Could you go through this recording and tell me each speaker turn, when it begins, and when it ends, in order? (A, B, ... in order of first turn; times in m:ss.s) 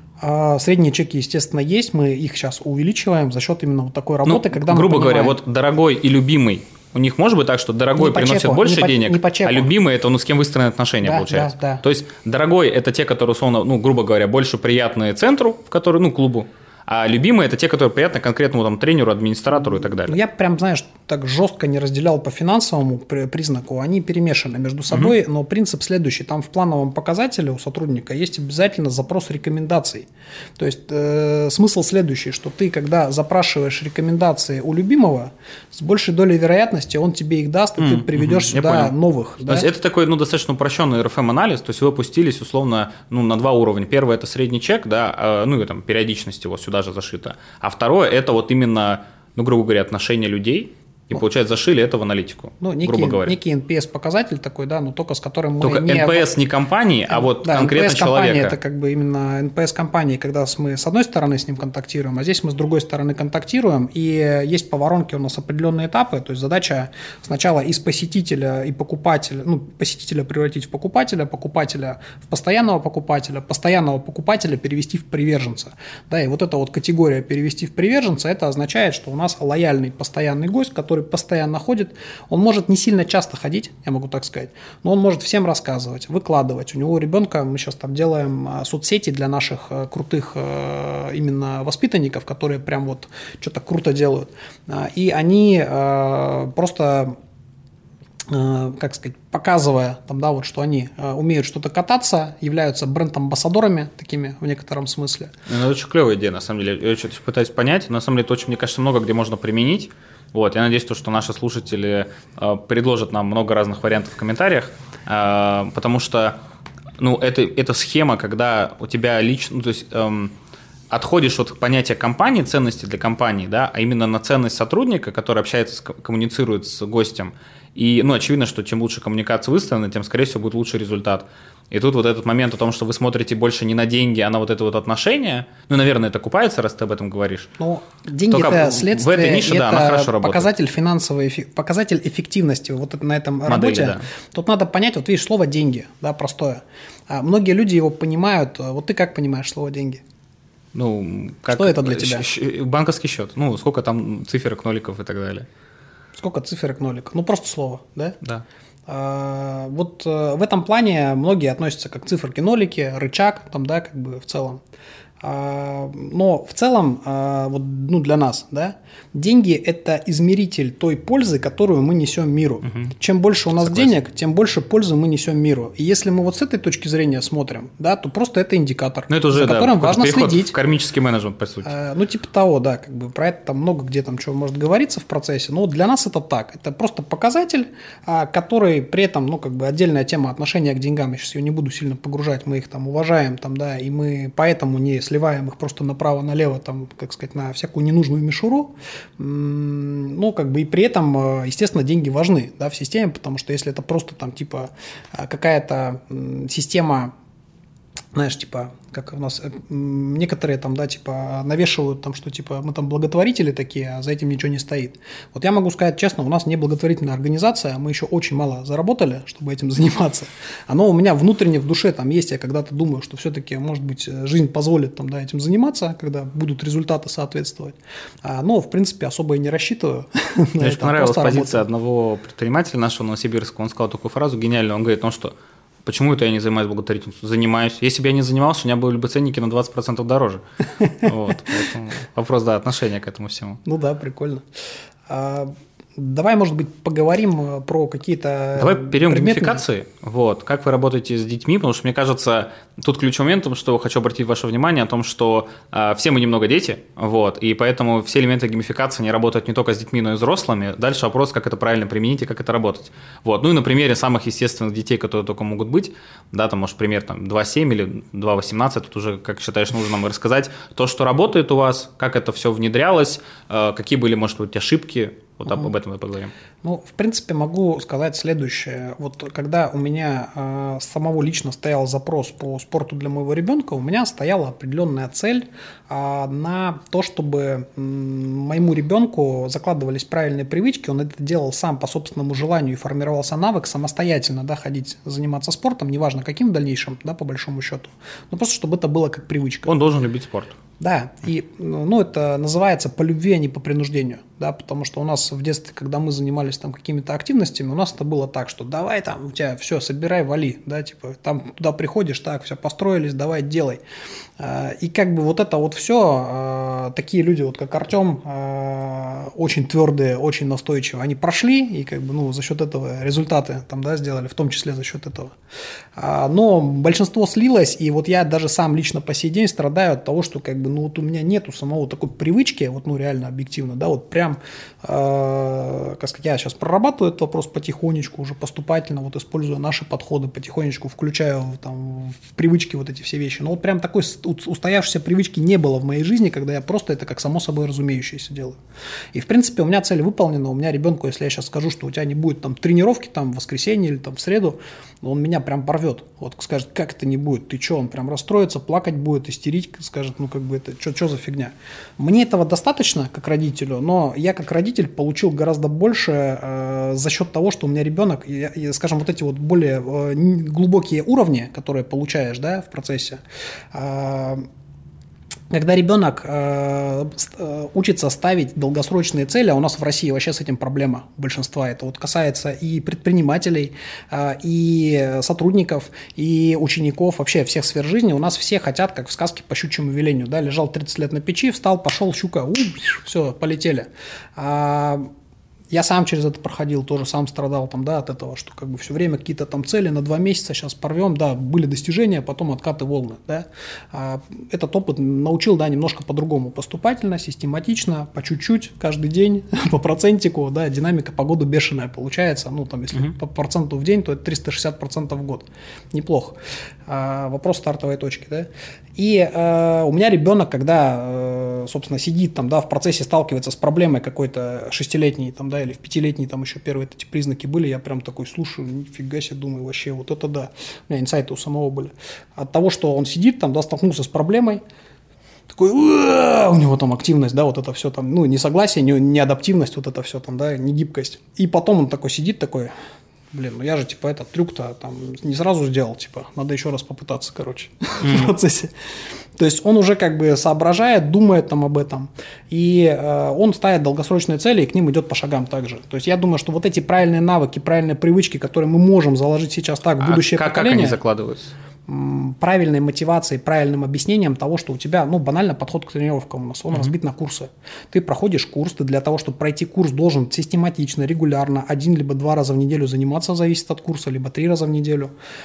0:00.2-0:05.4 A
0:04.2-0:20.2 B
0:08.0-0:09.7 A
0:11.0-0:11.8 A
0:20.0-0:30.0 A
0:30.6-0:39.7 A
0:37.8-0:38.9 B
0:39.4-0:53.4 B
0:52.6-0:56.3 A
0:55.6-0:58.6 B
0:57.1-1:37.2 A
1:38.3-1:45.3 A
1:45.5-1:56.4 B
1:57.0-2:00.3 B
2:00.9-2:17.5 B
2:17.6-2:30.0 A
2:18.3-2:20.5 B
2:23.4-2:24.0 B
2:30.7-2:35.5 B
2:31.5-2:32.2 A
2:36.2-2:38.2 A
2:38.9-2:44.6 A
2:45.2-3:00.5 A
2:53.6-2:53.9 B
2:59.1-3:01.7 B
3:01.6-3:27.1 A
3:28.1-3:51.6 A
3:50.6-4:00.4 B
4:01.0-4:03.6 B
4:03.6-4:04.4 A
4:05.1-4:09.6 A
4:08.6-4:36.3 B
4:36.6-4:59.7 A
4:59.6-5:00.6 B
5:00.8-5:13.8 A
5:14.4-5:25.3 A
5:26.0-5:48.6 A
5:49.1-6:13.2 A
6:13.7-6:14.4 A
6:15.5-6:35.1 A
6:35.7-7:14.6 A
7:15.5-7:22.7 A
7:23.3-7:28.7 A
7:28.0-7:28.3 B
7:29.4-7:41.0 A
7:40.0-7:41.5 B
7:41.9-7:55.1 A